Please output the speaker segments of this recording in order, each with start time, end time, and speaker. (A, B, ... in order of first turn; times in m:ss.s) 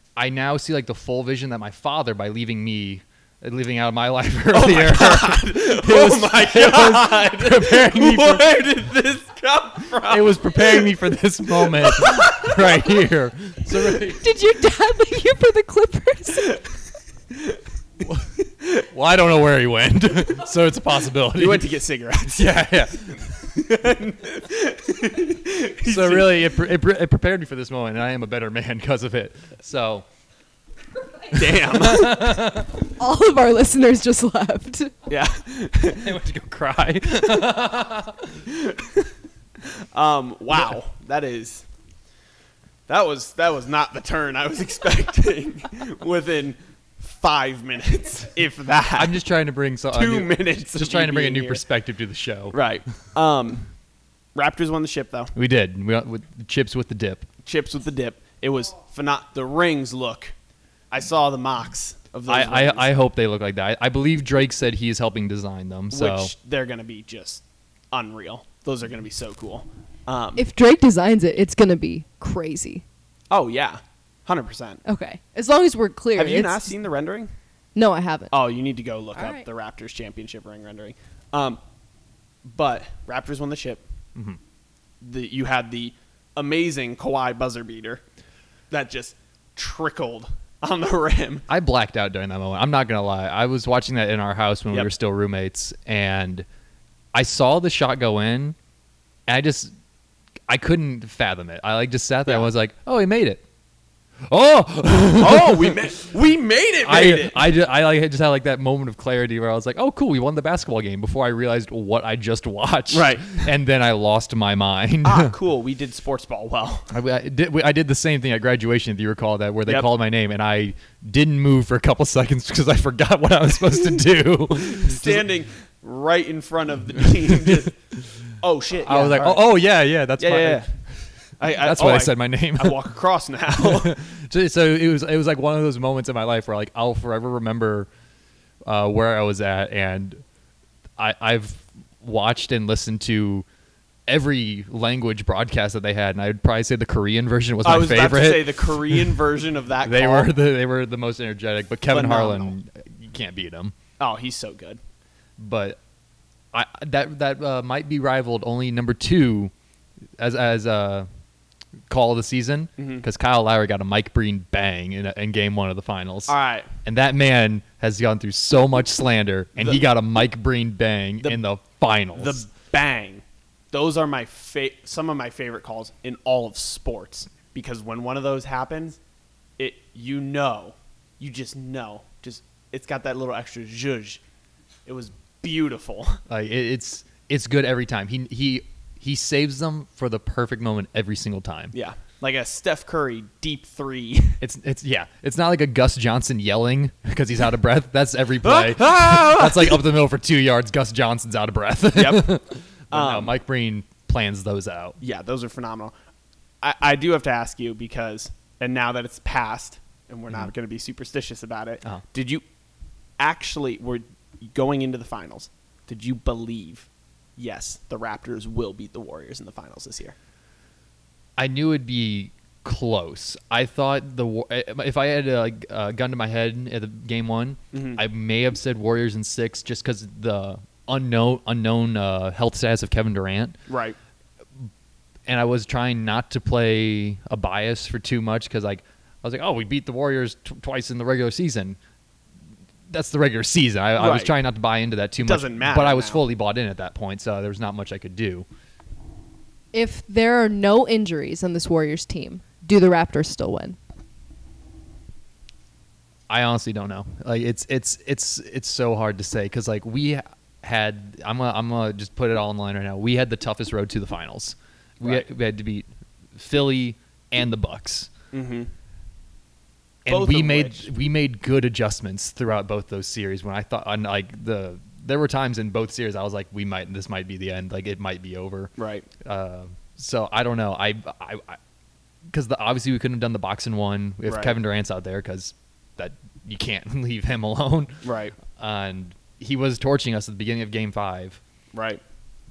0:00.2-0:08.6 A
0:04.5-0:10.9 B
0:10.0-0:14.2 A
0:11.6-0:12.9 B
0:14.2-0:16.6 C
0:17.3-0:17.6 B
0:18.0-0:21.7 A
0:21.3-0:26.6 B
0:22.2-0:23.4 A
0:25.8-0:30.0 A
0:31.3-0:32.4 B
0:31.3-0:32.8 A
0:33.0-0:34.9 C
0:35.1-0:36.2 B
0:35.9-0:38.5 A
0:38.5-0:39.1 B
0:39.6-0:41.6 B
0:42.9-0:49.2 B
0:48.9-0:52.6 A
0:49.9-0:51.6 B
0:52.5-0:53.7 B
0:54.3-0:55.3 B
0:55.4-0:57.3 A
0:57.4-1:00.3 B
1:00.9-1:02.9 B
1:02.3-1:06.3 A
1:05.9-1:10.4 B
1:10.4-1:12.8 C
1:13.3-1:14.8 B
1:14.8-1:16.7 C
1:16.2-1:17.3 B
1:17.7-1:18.4 C
1:18.3-1:21.6 B
1:19.1-1:19.5 C
1:22.4-1:23.8 B
1:25.0-1:28.0 B
1:28.7-1:31.4 B
1:31.5-1:36.4 A
1:37.1-1:38.6 A
1:39.3-1:39.7 A
1:40.5-1:43.4 A
1:44.3-1:45.9 A
1:45.1-1:47.5 B
1:46.8-1:55.3 A
1:52.9-1:53.5 B
1:55.0-1:56.9 B
1:56.9-2:05.2 A
2:04.6-2:07.7 B
2:07.3-2:07.6 A
2:08.4-2:09.4 B
2:08.8-2:12.9 A
2:10.2-2:10.7 B
2:11.4-2:14.0 B
2:13.5-2:17.9 A
2:18.6-2:20.2 A
2:21.0-2:23.4 A
2:24.1-2:29.2 A
2:27.6-2:30.3 B
2:29.8-2:33.7 A
2:31.9-2:32.5 B
2:34.0-2:34.8 B
2:35.4-2:35.8 A
2:36.5-2:39.5 A
2:40.2-2:41.1 A
2:41.9-2:52.4 A
2:42.8-2:43.0 B
2:46.3-2:46.7 B
2:49.6-2:49.9 B
2:52.1-2:59.0 B
2:59.6-3:04.2 B
3:04.8-3:06.2 B
3:06.3-3:11.7 A
3:11.7-3:14.4 B
3:14.4-3:25.0 A
3:18.4-3:19.8 B
3:21.9-3:22.3 B
3:22.9-3:23.3 B
3:25.0-3:25.9 B
3:26.6-3:32.4 B
3:33.2-3:40.2 B
3:41.4-3:53.6 A
3:47.7-3:48.0 B
3:53.7-3:54.0 B
3:55.3-4:01.8 A
4:02.9-4:08.4 A
4:04.0-4:04.3 B
4:05.2-4:06.2 B
4:09.7-4:13.8 C
4:16.3-4:28.1 A
4:28.3-4:28.7 B
4:30.0-4:41.6 A
4:30.1-4:30.9 B
4:38.8-4:39.1 B
4:42.3-4:51.4 A
4:44.2-4:44.6 B
4:48.0-4:48.3 B
4:51.7-4:52.0 B